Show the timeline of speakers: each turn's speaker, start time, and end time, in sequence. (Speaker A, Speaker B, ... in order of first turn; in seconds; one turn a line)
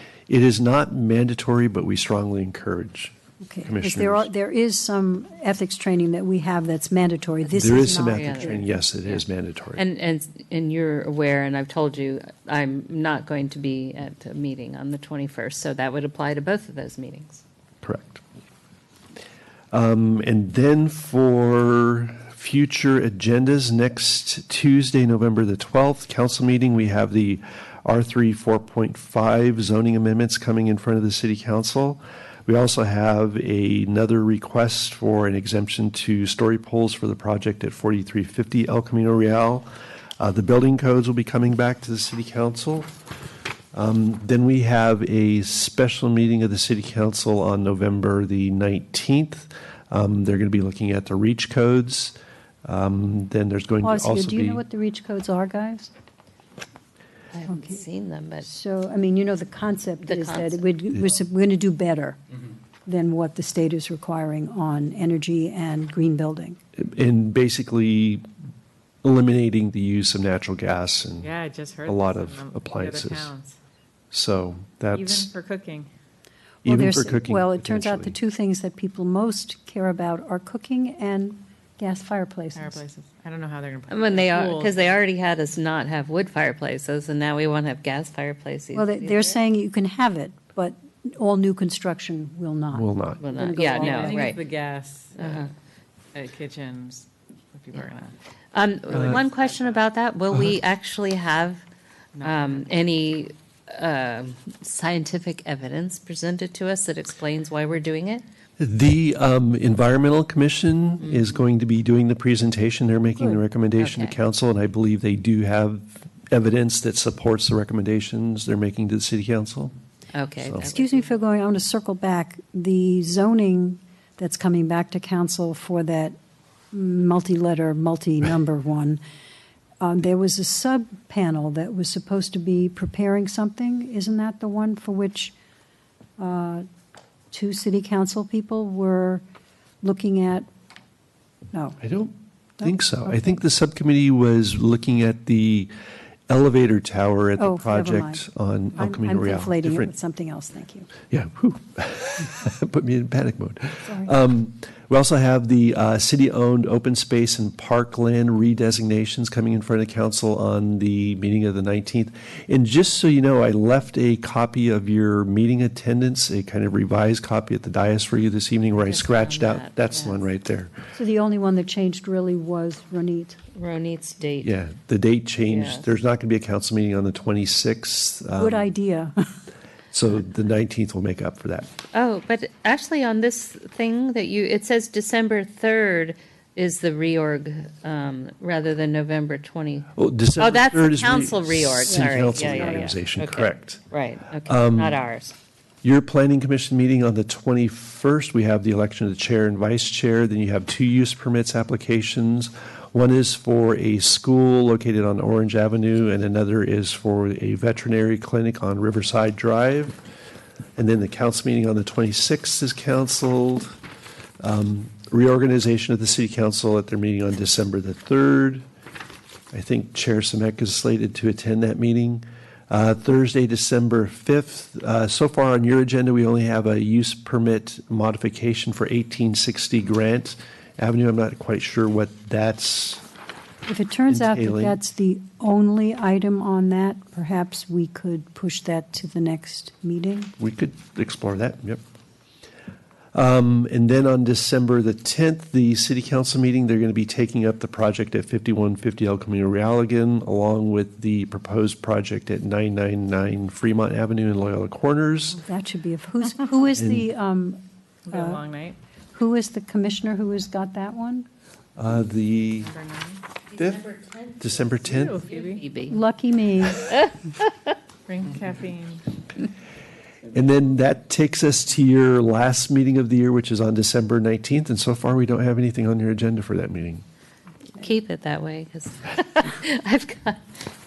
Speaker A: 0.3-4.3
Speaker B: 3.4-8.6
Speaker A: 7.5-9.8
Speaker C: 8.0-9.2
Speaker C: 9.8-17.4
Speaker A: 17.8-18.2
Speaker A: 19.7-39.7
Speaker A: 40.2-42.9
Speaker A: 43.7-54.6
Speaker B: 53.8-55.9
Speaker C: 57.3-58.5
Speaker B: 57.5-57.8
Speaker B: 58.4-62.2
Speaker C: 60.1-60.6
Speaker B: 62.9-66.6
Speaker A: 66.8-68.2
Speaker A: 69.0-71.3
Speaker D: 71.2-73.6
Speaker A: 71.8-73.3
Speaker A: 74.1-75.3
Speaker D: 74.9-75.9
Speaker B: 76.6-82.8
Speaker A: 76.6-78.1
Speaker D: 82.6-85.0
Speaker C: 83.9-89.4
Speaker B: 88.7-94.3
Speaker A: 92.7-93.2
Speaker C: 93.2-94.4
Speaker D: 93.6-95.5
Speaker C: 95.2-95.5
Speaker D: 96.1-98.1
Speaker C: 98.5-101.6
Speaker D: 99.0-99.3
Speaker D: 102.2-102.8
Speaker C: 102.2-108.2
Speaker A: 108.6-119.7
Speaker C: 113.8-114.2
Speaker C: 120.1-121.1
Speaker A: 120.4-120.7
Speaker B: 120.6-126.2
Speaker B: 126.7-129.0
Speaker B: 129.8-135.3
Speaker B: 136.2-136.7
Speaker B: 137.3-139.2
Speaker B: 139.8-140.5
Speaker B: 141.5-141.8
Speaker A: 141.8-145.7
Speaker B: 142.6-143.3
Speaker A: 146.3-149.9
Speaker B: 147.4-148.2
Speaker B: 148.8-150.9
Speaker A: 151.1-170.7
Speaker B: 153.8-154.1
Speaker C: 168.8-170.2
Speaker B: 170.9-173.4
Speaker C: 173.6-174.6
Speaker A: 174.4-178.7
Speaker C: 175.5-175.9
Speaker B: 178.4-179.3
Speaker A: 179.9-181.7
Speaker C: 181.9-195.3
Speaker A: 190.0-193.8
Speaker B: 191.9-192.9
Speaker A: 194.4-195.0
Speaker A: 195.8-210.0
Speaker A: 210.8-213.8
Speaker A: 214.4-218.7
Speaker A: 219.5-233.0
Speaker B: 233.7-240.3
Speaker A: 234.1-234.8
Speaker A: 240.4-241.8
Speaker A: 243.1-255.4
Speaker B: 255.3-258.4
Speaker A: 256.8-257.1
Speaker D: 258.1-258.8
Speaker B: 259.1-261.3
Speaker A: 261.8-262.7
Speaker D: 262.6-263.2
Speaker A: 263.5-263.9
Speaker C: 263.8-264.4
Speaker A: 264.4-265.2
Speaker D: 264.9-265.6
Speaker C: 265.3-266.0
Speaker B: 265.9-267.1
Speaker D: 268.1-269.1
Speaker A: 270.3-277.0
Speaker C: 277.7-280.5